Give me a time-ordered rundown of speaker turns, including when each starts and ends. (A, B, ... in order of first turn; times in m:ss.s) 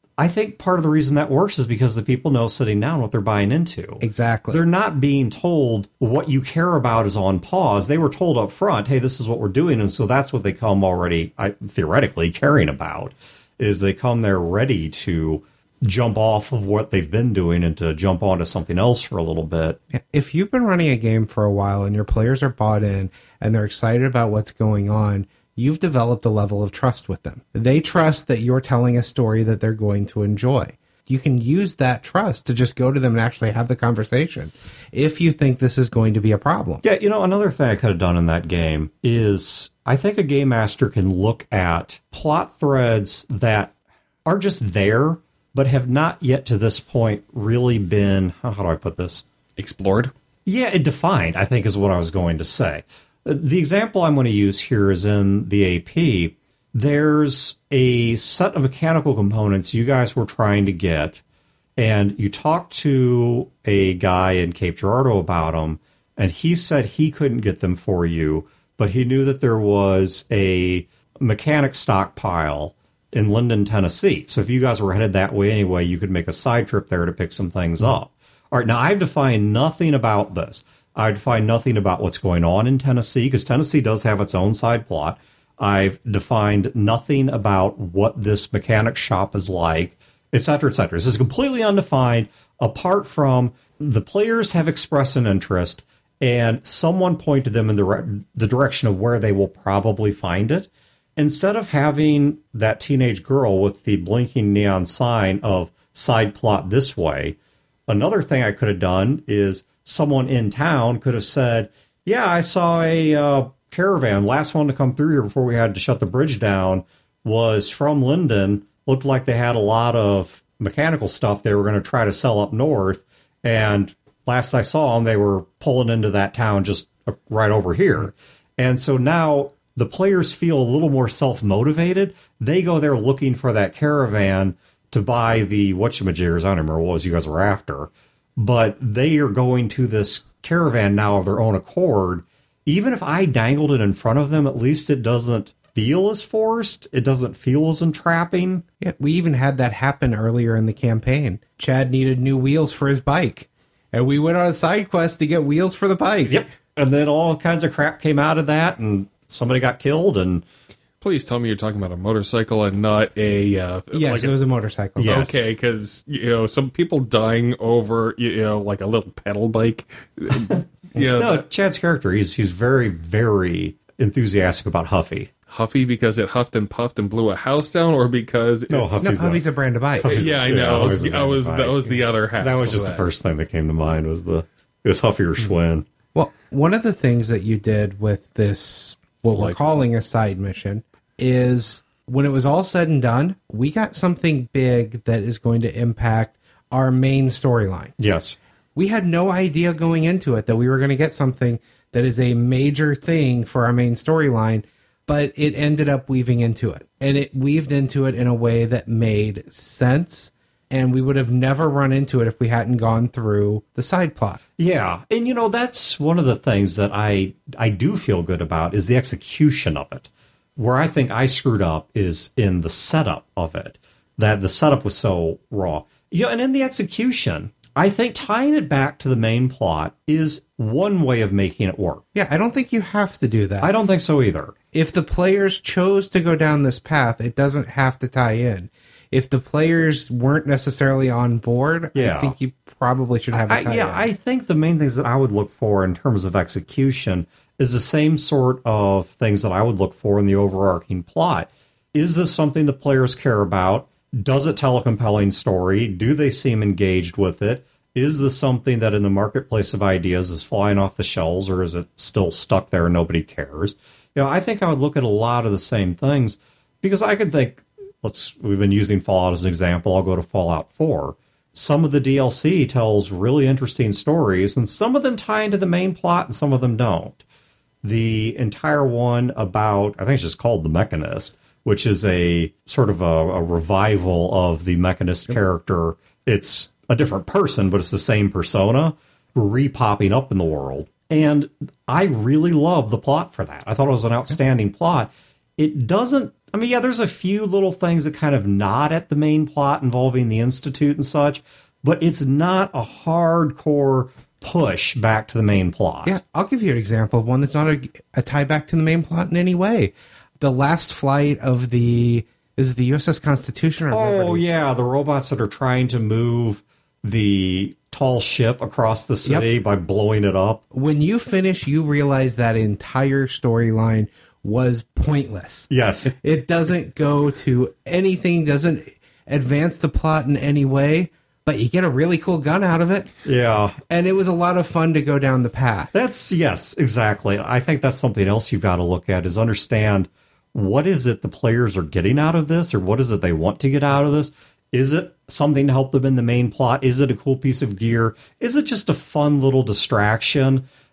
0:00.2-0:19.8 A
0:04.0-0:04.6 B
0:19.9-0:36.8 B
0:36.8-0:43.7 A
0:44.2-0:49.2 A
0:49.6-0:50.1 C
0:50.5-1:01.2 A
1:01.8-1:47.4 A
1:47.9-2:28.6 A
2:28.8-2:36.4 B
2:36.3-2:40.4 A
2:41.0-2:44.3 C
2:43.9-2:45.3 B
2:45.0-2:45.4 A
2:45.0-2:51.4 C
2:51.0-2:55.3 A
2:55.5-2:59.1 C
2:58.7-2:59.4 A
2:59.0-3:00.3 B
3:00.0-3:05.9 A
3:00.0-3:03.1 C
3:06.1-3:18.0 B
3:09.3-3:09.6 C
3:18.0-3:18.4 A
3:18.8-3:34.4 B
3:34.6-3:52.0 A
3:52.2-3:53.7 B
3:53.6-3:54.5 A
3:54.7-4:04.1 B
4:02.0-4:02.4 A
4:03.3-4:37.2 A
4:37.8-5:06.2 A
5:06.0-5:14.4 B
5:13.9-5:20.6 A
5:20.7-5:33.1 B
5:25.7-5:26.1 A
5:33.2-5:33.8 A
5:33.9-5:35.9 B
5:35.9-5:50.6 A